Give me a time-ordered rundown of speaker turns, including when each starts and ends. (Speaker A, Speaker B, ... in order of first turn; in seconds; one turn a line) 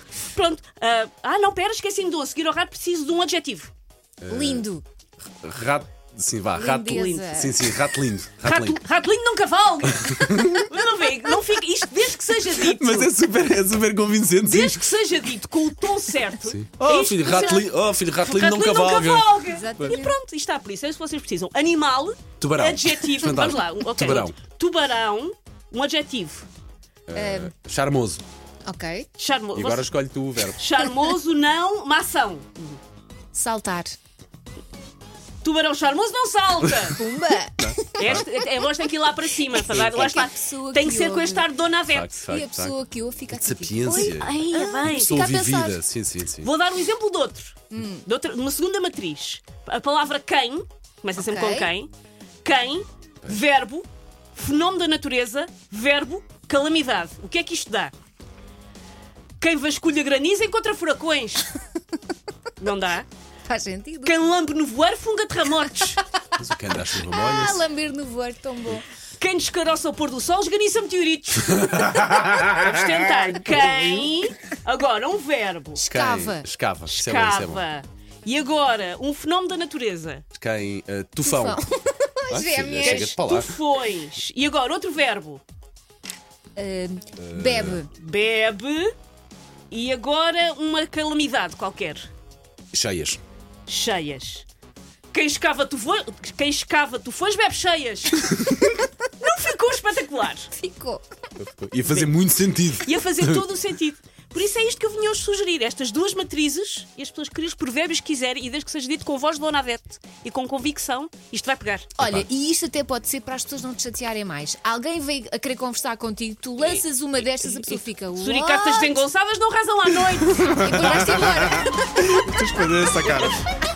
Speaker A: 0.2-3.7
Speaker B: 4.2-4.7
Speaker C: 4.3-4.8
Speaker B: 5.2-8.8
Speaker C: 6.5-7.6
Speaker A: 6.8-7.4
Speaker A: 8.4-13.1
Speaker B: 9.9-10.7
Speaker B: 12.7-14.9
Speaker A: 14.4-17.7
Speaker B: 16.3-20.0
Speaker A: 18.2-26.5
Speaker C: 19.4-20.1
Speaker B: 22.4-24.4
Speaker B: 27.1-28.2
Speaker C: 27.1-27.5
Speaker C: 28.7-29.1
Speaker A: 29.2-29.9
Speaker B: 29.5-30.7
Speaker A: 30.6-32.8
Speaker C: 33.3-34.0
Speaker A: 35.4-37.0
Speaker B: 36.6-36.9
Speaker C: 37.0-38.3
Speaker B: 37.6-38.2
Speaker A: 38.0-42.2
Speaker C: 39.6-41.5
Speaker B: 39.7-40.1
Speaker B: 41.9-42.8
Speaker C: 42.2-45.8
Speaker B: 43.3-46.5
Speaker A: 43.9-45.2
Speaker A: 46.4-51.9
Speaker C: 47.7-48.1
Speaker C: 51.2-51.7
Speaker A: 52.4-57.9
Speaker A: 59.4-61.5
Speaker A: 62.6-63.1
Speaker C: 63.5-64.3
Speaker A: 64.0-66.0
Speaker C: 65.9-66.2
Speaker B: 66.3-67.7
Speaker C: 67.0-68.8
Speaker A: 69.2-75.8
Speaker B: 71.5-73.8
Speaker C: 75.8-76.5
Speaker B: 75.8-77.6
Speaker A: 76.9-80.2
Speaker B: 80.3-81.6
Speaker C: 81.2-83.1
Speaker B: 82.3-83.5
Speaker A: 82.8-85.4
Speaker C: 86.6-87.9
Speaker B: 87.2-87.8
Speaker A: 87.9-88.9
Speaker A: 89.7-92.1
Speaker B: 92.7-93.2
Speaker A: 93.7-94.5
Speaker A: 95.1-98.3
Speaker B: 98.2-98.8
Speaker A: 99.2-100.5
Speaker C: 100.6-101.0
Speaker B: 101.4-103.4
Speaker A: 102.8-111.9
Speaker B: 112.0-112.3
Speaker C: 112.0-118.9
Speaker A: 117.4-120.6
Speaker B: 120.3-123.5
Speaker C: 120.4-121.8